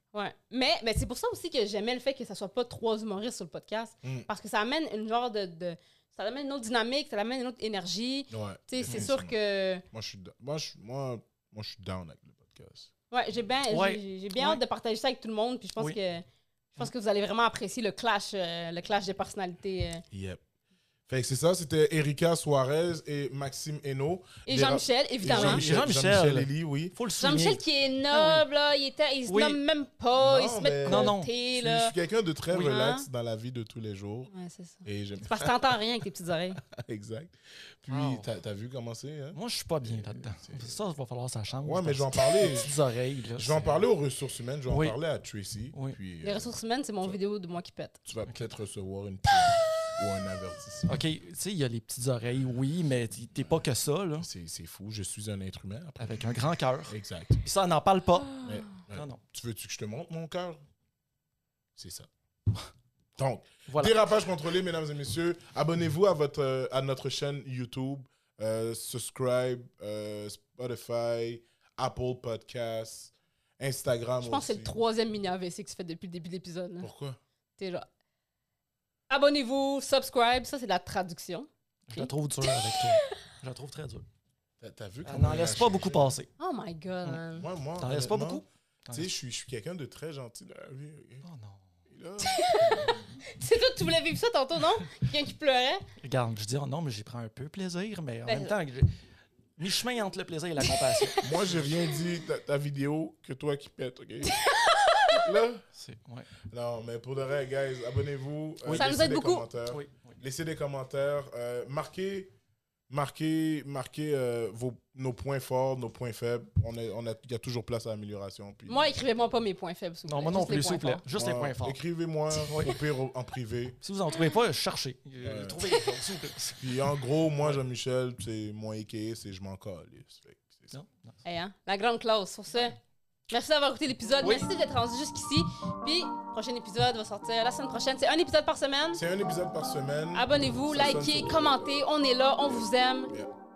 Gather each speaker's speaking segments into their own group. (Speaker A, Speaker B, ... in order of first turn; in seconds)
Speaker A: 0.1-9.8, 13.1-16.2, 16.8-20.0, 24.4-25.6, 27.2-31.9, 32.5-33.0, 34.3-36.6, 46.2-48.0, 74.2-76.9, 77.6-77.9, 79.1-83.1, 86.4-87.5, 92.2-95.8, 98.3-98.5, 100.6-101.3, 104.2-105.2, 108.7-109.5, 118.7-121.0, 125.6-126.0, 131.2-132.8, 133.3-139.0, 140.1-143.1
Speaker B: 8.3-9.3, 9.9-12.9, 20.1-20.4, 21.1-26.9, 30.1-34.3, 34.8-35.8, 36.7-40.8, 41.6-42.7, 43.3-47.2, 48.0-51.0, 54.2-57.4, 58.4-60.6, 61.8-62.1, 63.2-74.7, 76.8-77.2, 84.6-86.1, 87.3-91.2, 91.9-93.1, 101.2-104.4, 105.2-105.6, 106.5-112.3, 112.9-118.9, 121.1-123.8, 125.2-125.7, 126.5-130.7, 138.9-141.8, 142.4-143.3
Speaker C: 13.7-14.6, 25.2-28.4, 29.3-29.6, 30.9-31.3, 37.9-38.3, 39.3-43.8, 44.7-45.0, 50.9-54.3, 56.0-59.2, 63.7-64.0, 81.9-84.0, 85.0-86.3, 87.8-89.1, 91.2-91.7, 96.0-98.9, 99.6-101.7, 105.7-106.3, 108.6-108.9, 109.7-110.2, 120.1-121.8, 122.3-122.8, 123.8-126.8, 130.7-131.2, 134.2-134.5